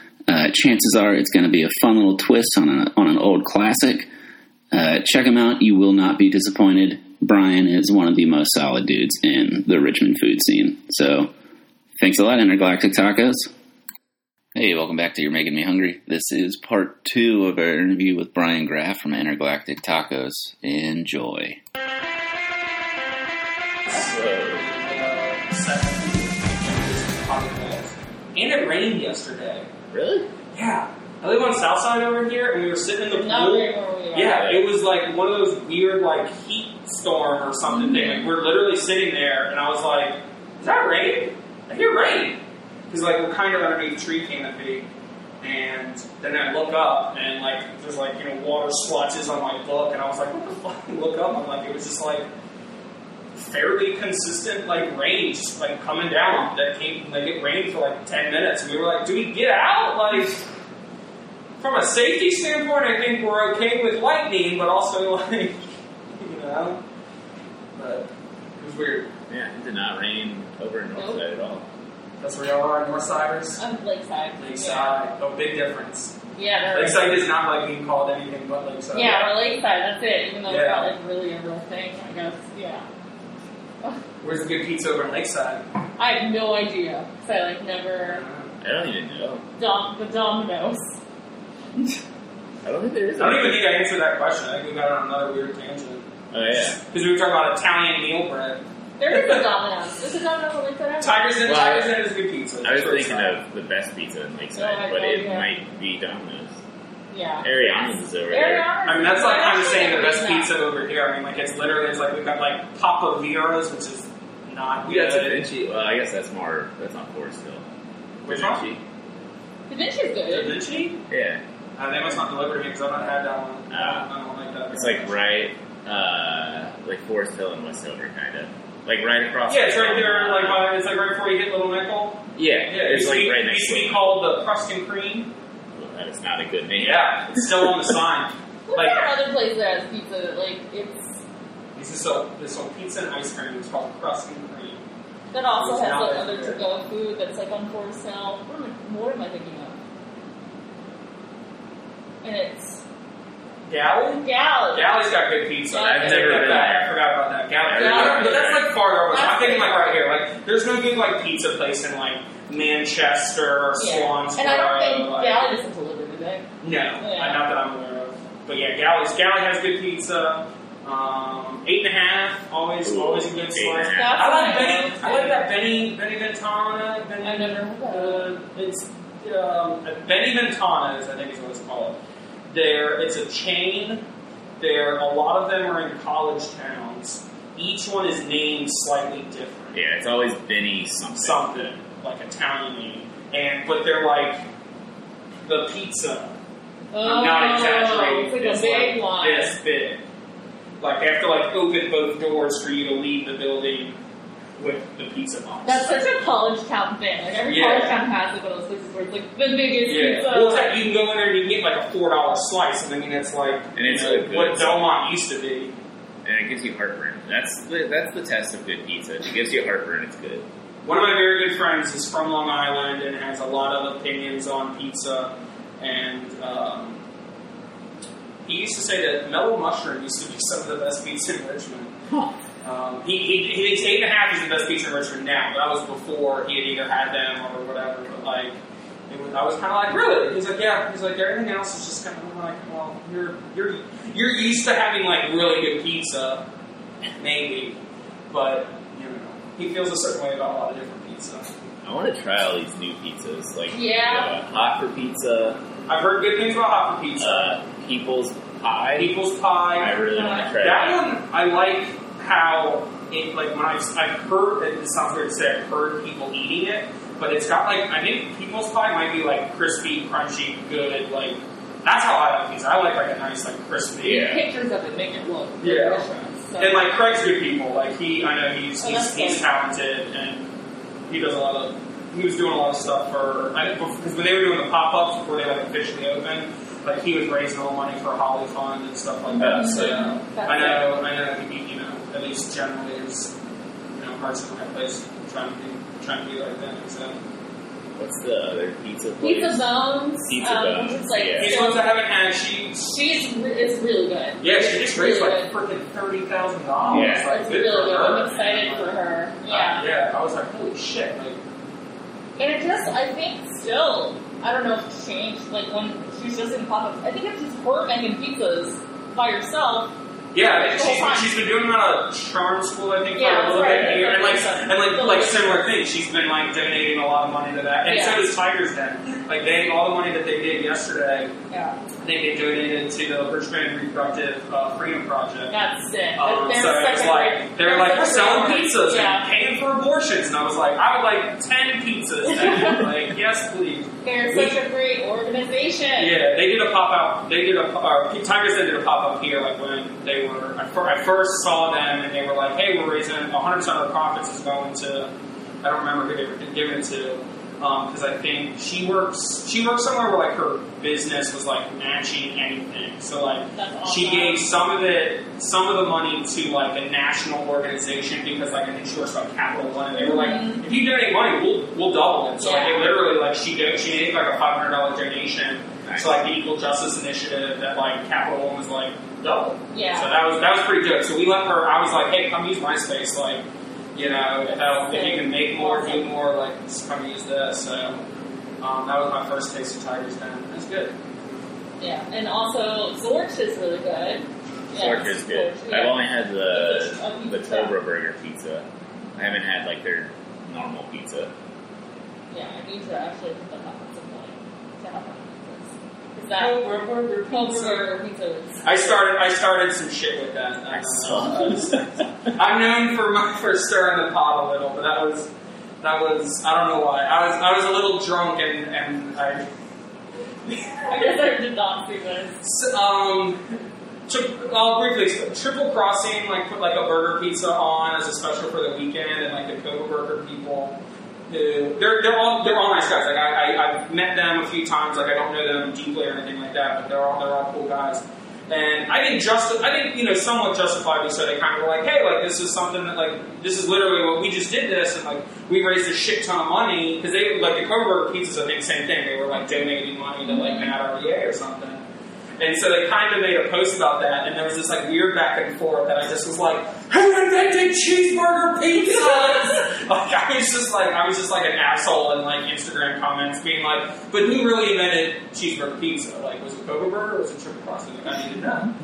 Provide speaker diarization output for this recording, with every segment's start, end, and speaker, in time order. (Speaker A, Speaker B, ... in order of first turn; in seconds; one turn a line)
Speaker A: 0.3-4.1
Speaker A: 4.7-11.3
Speaker A: 12.0-13.5
Speaker A: 14.5-21.6
Speaker B: 23.9-29.7
Speaker C: 23.9-24.7
Speaker C: 29.9-30.3
Speaker B: 30.5-42.4
Speaker D: 33.1-34.5
Speaker D: 37.7-38.3
Speaker B: 42.9-44.9
Speaker B: 45.4-52.2
Speaker B: 53.3-60.4
Speaker B: 61.6-66.8
Speaker B: 67.8-69.1
Speaker C: 69.3-71.7
Speaker D: 70.9-71.2
Speaker B: 72.2-73.6
Speaker D: 73.6-75.0
Speaker B: 74.4-76.2
Speaker D: 76.3-77.1
Speaker B: 76.7-79.3
Speaker D: 78.9-82.8
Speaker B: 80.5-80.9
Speaker B: 84.2-85.6
Speaker D: 86.0-88.2
Speaker B: 88.0-88.5
Speaker C: 88.6-89.4
Speaker D: 89.6-91.0
Speaker C: 92.6-93.6
Speaker B: 93.2-99.4
Speaker C: 96.3-96.8
Speaker D: 99.0-101.6
Speaker B: 101.0-103.4
Speaker C: 101.5-101.9
Speaker C: 102.6-106.6
Speaker D: 104.5-105.5
Speaker D: 107.1-110.5
Speaker C: 107.4-108.7
Speaker B: 108.8-115.4
Speaker C: 114.8-117.6
Speaker B: 118.2-118.7
Speaker C: 118.2-118.8
Speaker D: 119.7-120.5
Speaker B: 120.3-121.0
Speaker C: 121.1-121.4
Speaker B: 121.8-125.1
Speaker C: 123.7-124.0
Speaker C: 124.7-130.7
Speaker B: 129.5-135.3
Speaker C: 132.3-134.2
Speaker C: 135.7-137.9
Speaker B: 136.8-139.0
Speaker D: 138.7-141.2
Speaker B: 141.7-144.8
Speaker D: 145.3-149.8
Speaker B: 145.6-146.6
Speaker D: 152.2-152.8
Speaker B: 153.7-165.5
Speaker D: 154.2-155.0
Speaker D: 155.7-156.8
Speaker C: 155.8-156.9
Speaker C: 157.6-158.7
Speaker D: 157.8-158.3
Speaker D: 159.1-159.9
Speaker D: 163.8-166.4
Speaker B: 166.6-182.0
Speaker D: 167.0-167.4
Speaker C: 172.8-174.3
Speaker D: 173.9-175.4
Speaker D: 177.2-178.3
Speaker B: 182.5-184.0
Speaker B: 184.6-189.8
Speaker C: 189.7-191.4
Speaker B: 191.2-194.4
Speaker B: 195.4-196.3
Speaker D: 196.9-199.5
Speaker B: 197.0-200.0
Speaker B: 200.8-204.0
Speaker B: 204.6-206.1
Speaker D: 205.6-210.7
Speaker B: 207.5-208.0
Speaker B: 209.8-215.7
Speaker C: 213.8-214.8
Speaker C: 216.2-220.4
Speaker B: 220.8-227.0
Speaker B: 228.4-231.9
Speaker C: 232.1-232.3
Speaker B: 232.6-238.6
Speaker B: 239.1-246.4
Speaker B: 247.2-247.8
Speaker B: 248.3-251.5
Speaker C: 251.8-255.6
Speaker D: 253.7-254.3
Speaker B: 255.9-257.5
Speaker C: 257.2-259.1
Speaker B: 259.0-260.0
Speaker C: 259.8-261.0
Speaker D: 260.1-260.5
Speaker B: 260.5-274.4
Speaker C: 274.0-274.4
Speaker D: 274.0-276.8
Speaker B: 275.6-276.1
Speaker B: 276.6-280.5
Speaker D: 278.8-279.4
Speaker B: 281.1-293.3
Speaker D: 289.3-290.9
Speaker C: 289.4-290.0
Speaker B: 293.9-297.2
Speaker C: 298.0-299.7
Speaker D: 299.2-301.9
Speaker C: 300.2-301.6
Speaker B: 301.4-302.9
Speaker D: 302.8-305.5
Speaker B: 304.4-308.9
Speaker C: 306.9-307.3
Speaker D: 306.9-309.8
Speaker B: 309.5-311.4
Speaker D: 312.4-321.3
Speaker B: 320.3-331.3
Speaker D: 323.1-325.6
Speaker D: 327.9-328.2
Speaker D: 331.5-331.8
Speaker B: 332.0-335.5
Speaker D: 335.5-339.2
Speaker B: 336.2-344.6
Speaker D: 342.3-342.9
Speaker D: 344.0-346.1
Speaker B: 346.0-383.4
Speaker D: 363.5-364.4
Speaker D: 369.9-370.7
Speaker D: 372.4-372.9
Speaker C: 375.8-376.1
Speaker D: 379.7-380.1
Speaker B: 383.9-388.0
Speaker D: 384.4-386.1
Speaker B: 388.6-390.9
Speaker D: 391.8-397.7
Speaker C: 394.7-401.3
Speaker D: 402.3-409.0
Speaker B: 406.4-407.9
Speaker B: 408.6-415.3
Speaker C: 410.7-412.0
Speaker B: 415.8-419.4
Speaker B: 420.4-421.2
Speaker D: 420.7-422.3
Speaker B: 422.4-423.4
Speaker B: 424.1-430.8
Speaker B: 431.3-451.8
Speaker D: 450.2-450.7
Speaker B: 452.4-468.7